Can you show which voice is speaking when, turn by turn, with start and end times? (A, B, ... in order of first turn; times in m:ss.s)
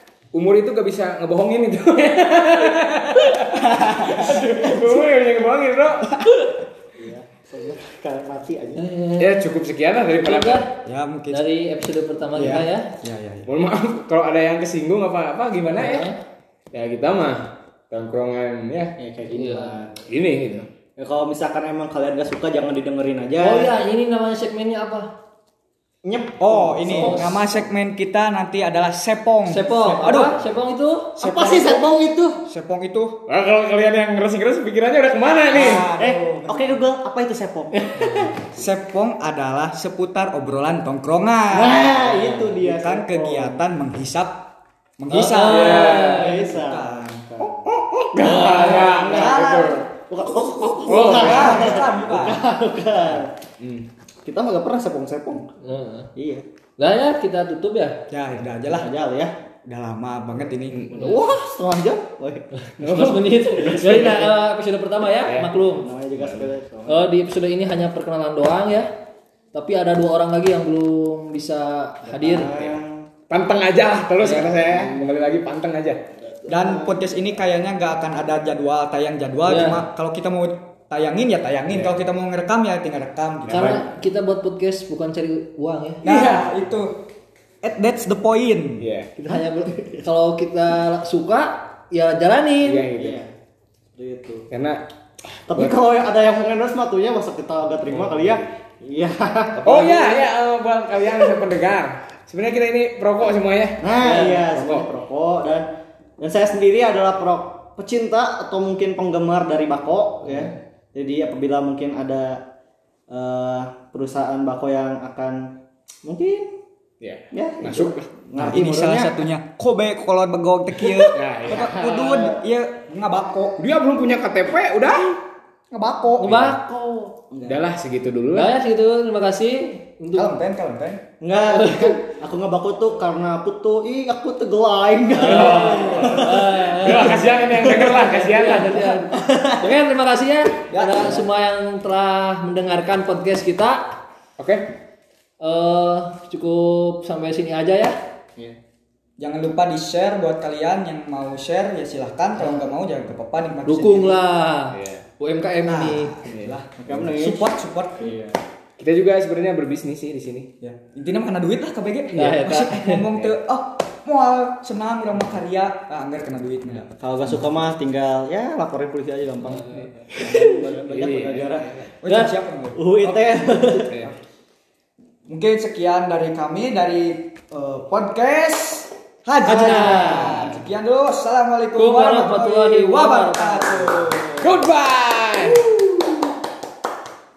0:00.3-0:06.2 A
0:07.0-0:08.8 B
0:08.8-0:09.4 C
0:09.2-0:10.6 A
0:10.2-0:10.7 C
0:10.8-0:11.4 D
0:11.3-0:12.9 C
0:12.4-0:13.5 D
0:13.4-0:16.1 A
0:15.7-0:16.2 C
0:16.7-0:18.9 A
0:19.0-0:20.0 B
0:19.3-0:19.7 C
0:20.1-0:20.7 A
0:21.0-0:23.8 B
0:23.4-0:25.1 C
0:26.0-0:27.5 B
0:26.4-0:30.4 D
0:27.0-0:27.4 C
0:29.4-0:31.2 C
0:31.2-0:31.8 D
0:31.2-0:32.4 B
0:32.4-0:33.2 D
0:33.3-0:35.9 A
0:35.5-0:36.8 D
0:35.7-0:38.3 B
0:37.9-0:38.3 C
0:38.5-0:44.4 D
0:41.5-0:43.6 B
0:45.0-0:47.5 D
0:45.1-0:47.6 B
0:45.4-0:46.4 A
0:45.8-0:46.2 C
0:47.6-0:49.8 A
0:48.2-0:48.8 C
0:48.2-0:49.5 B
0:48.8-0:49.8 D
0:50.1-0:53.3 B
0:50.9-0:51.8 A
0:51.0-0:52.4 D
0:53.6-0:53.9 A
0:54.2-0:55.4 B
0:55.6-0:56.1 C
0:56.2-0:56.4 B
0:56.8-0:58.0 C
0:58.1-0:58.9 D
0:58.7-0:59.3 B
0:59.6-1:00.9 D
1:00.7-1:01.1 A
1:00.9-1:02.4 B
1:02.6-1:05.9 C
1:02.8-1:04.2 A
1:03.8-1:04.0 B
1:05.2-1:05.5 A
1:05.7-1:07.1 B
1:06.2-1:06.5 A
1:06.9-1:08.9 C
1:09.5-1:12.5 C
1:12.1-1:13.1 B
1:13.3-1:16.0 A
1:14.2-1:14.8 C
1:16.5-1:23.7 D
1:16.5-1:17.0 B
1:19.4-1:19.8 C
1:21.7-1:21.9 A
1:23.4-1:23.8 A
1:23.5-1:26.0 C
1:26.0-1:26.5 A
1:26.0-1:27.0 D
1:27.6-1:28.8 D
1:28.8-1:29.1 A
1:29.2-1:32.8 C
1:32.6-1:33.2 A
1:32.9-1:33.3 B
1:34.0-1:34.4 B
1:34.5-1:34.8 A
1:35.5-1:35.7 A
1:35.5-1:39.6 B
1:39.6-1:40.3 C
1:39.6-1:44.9 A
1:43.8-1:45.7 B
1:44.0-1:44.4 C
1:46.2-1:52.4 B
1:53.1-1:56.6 B
1:57.0-1:58.1 A
1:57.3-1:59.1 B
1:58.4-2:03.6 D
2:01.1-2:01.7 A
2:01.5-2:02.4 B
2:03.6-2:05.2 A
2:05.7-2:06.5 D
2:06.2-2:07.1 C
2:06.2-2:06.6 A
2:07.3-2:07.6 B
2:07.5-2:08.5 A
2:08.3-2:10.4 C
2:10.2-2:11.0 D
2:11.2-2:18.2 B
2:11.5-2:12.0 C
2:15.1-2:23.8 C
2:15.2-2:19.0 A
2:19.1-2:19.7 B
2:20.7-2:21.3 D
2:24.4-2:24.7 A
2:25.4-2:28.0 C
2:29.2-2:34.2 D
2:32.4-2:32.7 C
2:33.6-2:36.1 C
2:34.7-2:35.0 A
2:35.6-2:38.1 D
2:36.2-2:36.6 A
2:36.8-2:38.4 B
2:38.8-2:40.5 A
2:40.6-2:46.9 D
2:42.1-2:43.0 C
2:43.1-2:43.4 A
2:47.0-2:51.8 B
2:50.1-2:50.6 C
2:50.7-2:51.9 A
2:52.0-2:54.1 D
2:52.0-2:52.3 C
2:52.8-2:54.0 B
2:53.8-2:54.1 A
2:55.3-3:04.4 D
2:59.4-3:00.4 C
2:59.5-3:00.5 B
3:01.7-3:04.5 C
3:04.4-3:05.6 A